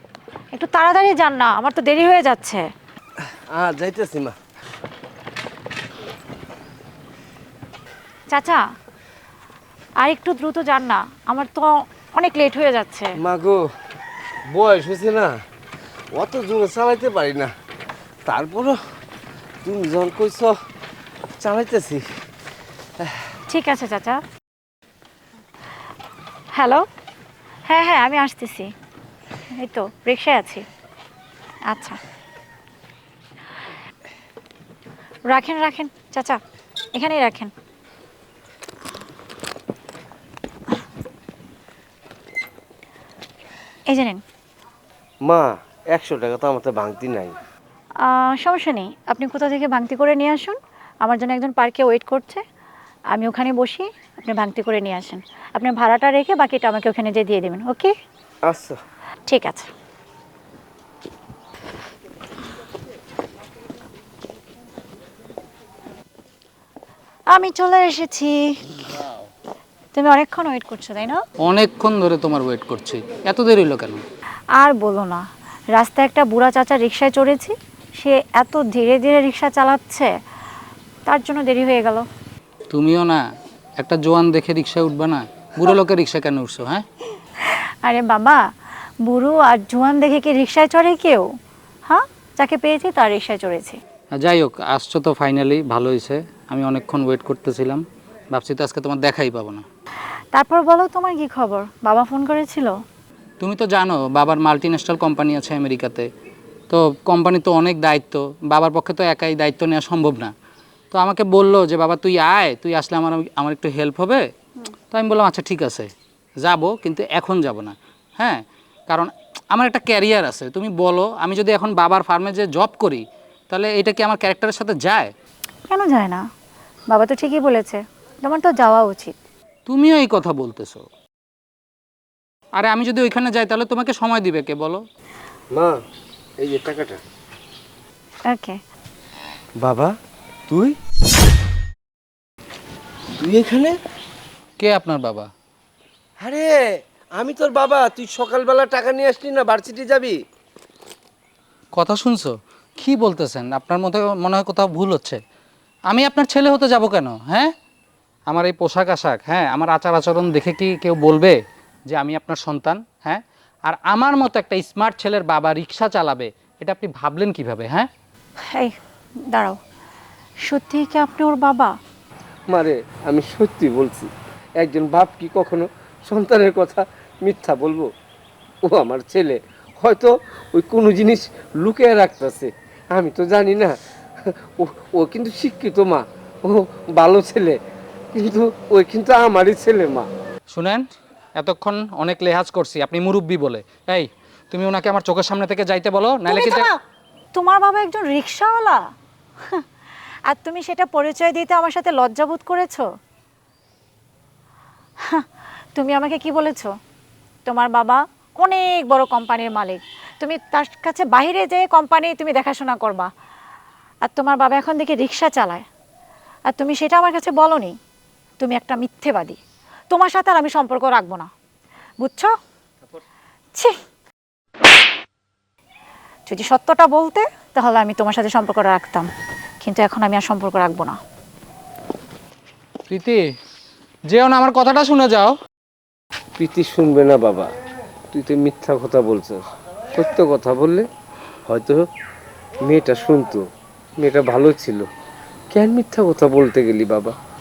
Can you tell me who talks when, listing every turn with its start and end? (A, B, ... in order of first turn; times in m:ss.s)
0:00.6-0:02.6 A
0:03.5-0:04.4 B
0:08.3-0:08.6 A
0:10.0-0:13.2 A
0:13.2-0:13.6 B
0:14.5-0:15.3 B
0:16.2-0:17.5 B
0:18.3-0:18.8 B
0:19.6-0:20.5 B
0:21.4-0:22.0 B
0:23.5-0:24.2 A
0:26.6-0:26.8 A
0:27.7-0:28.7 A
0:29.6-0:30.6 A
0:31.7-0:32.0 A
0:35.3-0:36.4 A
0:37.0-0:37.5 A
0:43.9-0:44.2 A
0:45.3-0:47.4 B
0:48.0-0:52.4 A
0:53.1-0:57.9 A
0:58.5-0:58.8 B
0:59.3-0:59.7 A
1:07.3-1:08.8 A
1:09.9-1:11.2 A
1:11.4-1:14.0 C
1:14.6-1:15.2 A
1:15.8-1:20.1 A
1:21.1-1:22.1 A
1:22.7-1:23.2 C
1:23.8-1:26.8 C
1:27.5-1:28.4 A
1:29.0-1:31.3 A
1:31.9-1:33.8 A
1:34.2-1:39.6 C
1:40.3-1:42.7 A
1:43.4-1:46.1 C
1:46.7-1:50.3 C
1:50.9-1:54.2 C
1:54.9-1:55.9 C
1:56.4-2:05.1 C
2:05.7-2:06.2 A
2:06.9-2:09.2 A
2:09.7-2:10.9 C
2:12.6-2:14.8 C
2:15.5-2:15.8 B
2:16.4-2:17.0 B
2:18.3-2:18.6 A
2:19.6-2:20.0 B
2:20.5-2:20.8 B
2:23.2-2:23.8 B
2:24.6-2:25.3 C
2:26.2-2:30.2 B
2:31.8-2:35.2 C
2:35.9-2:37.5 C
2:38.3-2:41.4 C
2:41.9-2:47.9 C
2:48.5-2:48.7 A
2:49.3-2:49.6 A
2:50.4-2:51.8 A
2:52.5-2:57.9 B
2:58.6-3:07.6 B
3:08.2-3:10.1 B
3:10.5-3:10.9 C
3:11.4-3:16.7 C
3:16.3-3:16.8 A
3:17.3-3:18.8 A
3:20.3-3:22.9 A
3:25.0-3:26.7 A
3:27.5-3:33.1 A
3:34.1-3:35.6 A
3:36.5-3:37.8 A
3:38.4-3:39.4 A
3:39.9-3:41.3 A
3:42.0-3:42.3 A
3:46.3-3:49.1 A
3:49.6-3:51.0 A
3:52.9-3:53.2 C
3:54.1-3:55.4 C
3:56.4-3:57.5 B
3:58.1-3:59.4 B
3:59.9-4:00.9 B
4:01.5-4:01.8 B
4:02.7-4:03.4 B
4:04.0-4:04.9 B
4:05.5-4:07.2 B